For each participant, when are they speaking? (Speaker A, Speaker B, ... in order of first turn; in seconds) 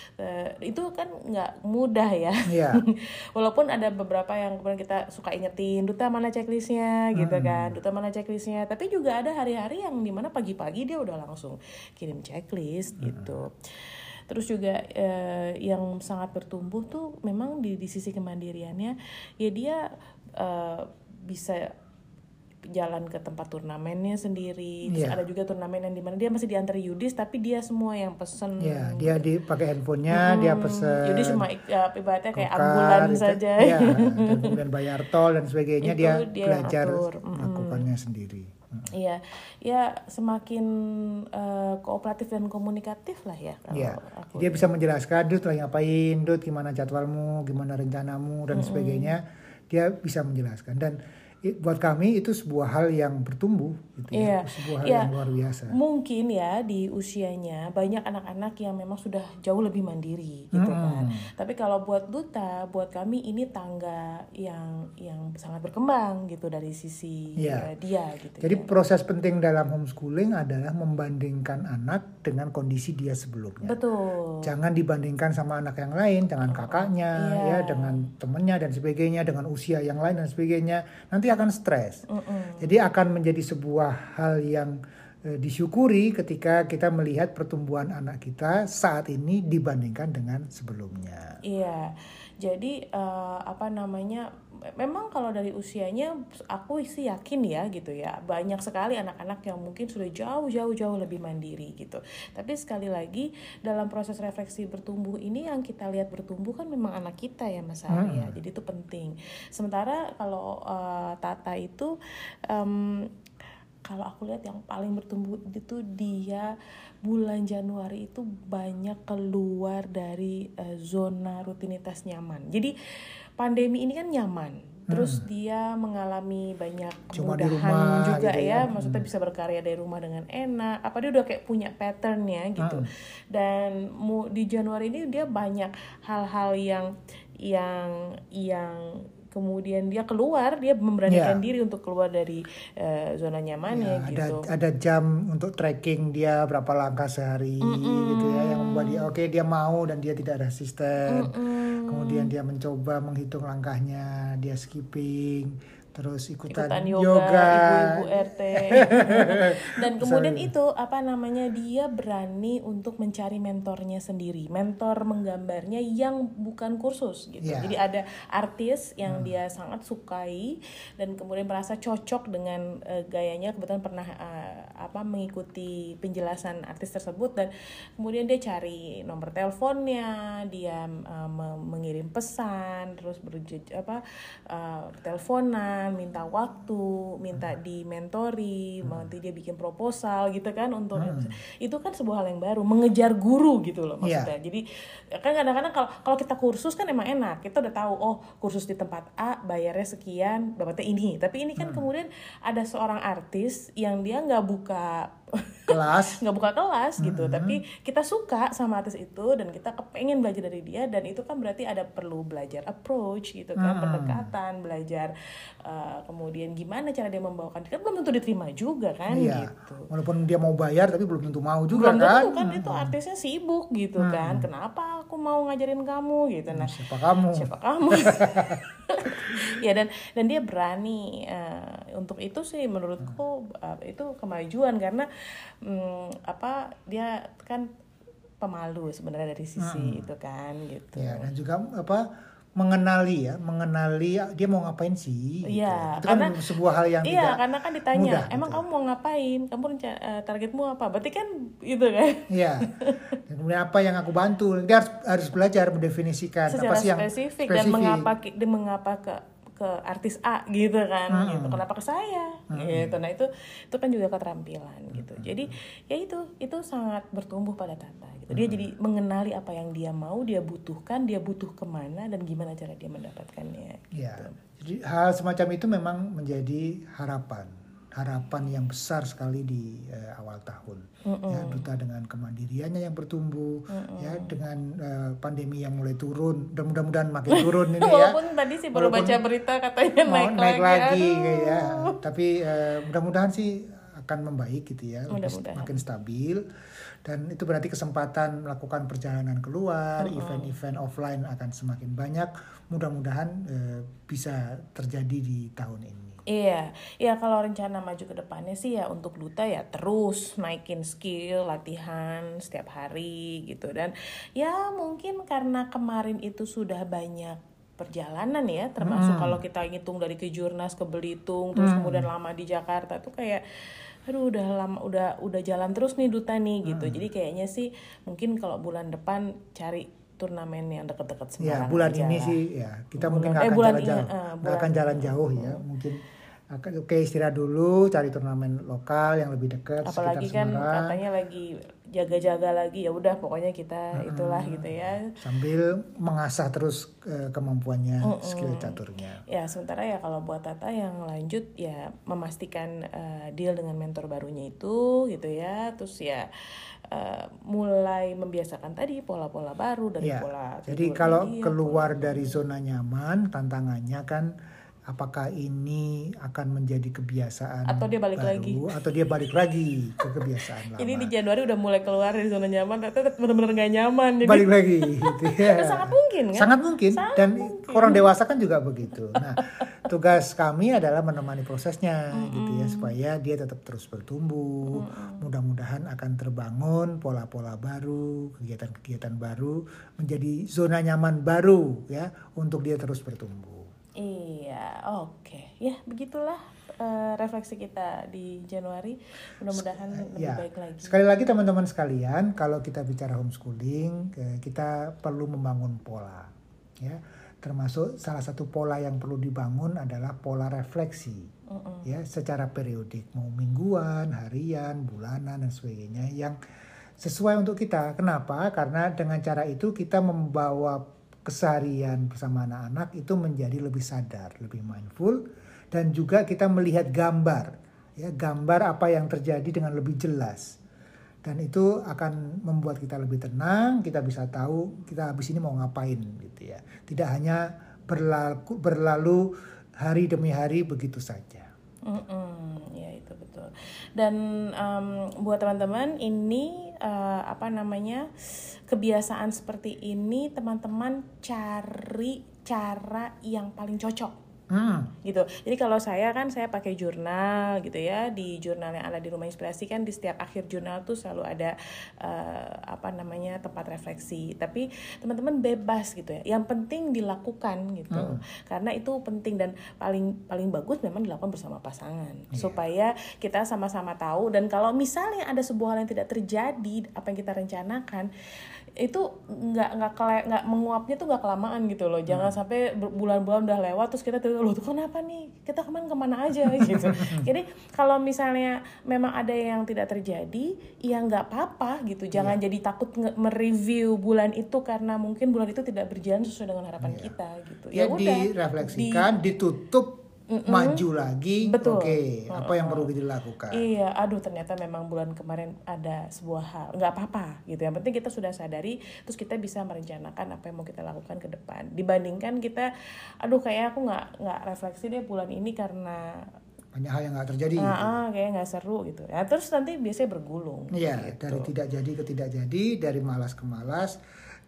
Speaker A: 0.2-19.8, 20.4-21.7, 22.7-29.2, 30.1-34.6, 35.8-37.9, 38.9-44.7, 48.5-49.1, 54.1-55.1, 55.7-68.7, 73.7-74.5, 76.5-78.1, 82.1-82.8, 91.5-111.9, 112.5-113.1, 113.9-116.5, 117.0-122.7, 123.4-136.9, 137.4-144.5, 147.6-149.1, 151.1-152.3, 156.5-194.6, 195.2-215.1, 215.7-219.9, 221.7-226.8, 227.3-235.1, 235.6-237.7, 238.4-241.3, 245.5-246.4, 247.0-253.2, 256.5-274.4, 281.1-281.6, 283.7-284.3, 287.3-291.9, 295.1-295.8, 300.0-300.5, 306.3-323.4, 324.1-332.4, 333.0-335.6, 339.9-345.1, 348.0-356.3, 356.9-362.4, 367.7-368.6, 370.0-378.0, 379.1-379.6, 382.2-382.9, 384.7-385.2, 394.0-401.0, 411.5-411.9, 441.9-454.2, 455.0-478.1, 478.8-499.1, 500.3-500.8, 501.4-502.9, 503.5-512.7, 513.2-516.1, 517.6-521.5
Speaker B: 2.5-2.8, 7.2-7.8, 13.0-13.3, 24.9-25.2, 28.6-31.5, 32.4-38.9, 43.7-55.8, 60.5-61.3, 67.4-67.7, 68.4-73.8, 74.4-82.0, 82.6-84.8, 85.3-91.4, 107.9-108.3, 124.9-125.2, 127.1-129.1, 132.6-132.9, 141.1-141.4, 143.7-160.5, 167.4-167.8, 169.1-169.3, 191.0-191.3, 194.0-194.3, 201.6-201.9, 205.7-206.2, 207.0-207.6, 213.6-214.3, 219.1-222.9, 224.0-224.5, 226.5-228.6, 239.6-240.1, 241.0-242.1, 242.6-248.6, 252.3-252.7, 253.3-258.1, 261.1-261.6, 262.5-263.0, 264.9-265.4, 268.3-268.7, 273.9-288.2, 288.7-289.2, 290.1-296.4, 297.0-306.2, 318.8-319.4, 321.6-322.1, 326.6-327.1, 331.4-336.0, 336.5-341.0, 344.0-349.2, 360.0-364.3, 364.9-371.1, 374.2-393.7, 399.5-411.3, 411.9-416.4, 417.0-425.2, 425.7-430.5, 431.2-439.2, 439.8-441.5, 454.5-454.9, 467.9-468.2, 472.3-472.6, 482.1-482.4, 486.4-487.3, 492.1-492.4, 496.8-497.1, 497.7-503.6, 516.7-518.0, 520.7-524.0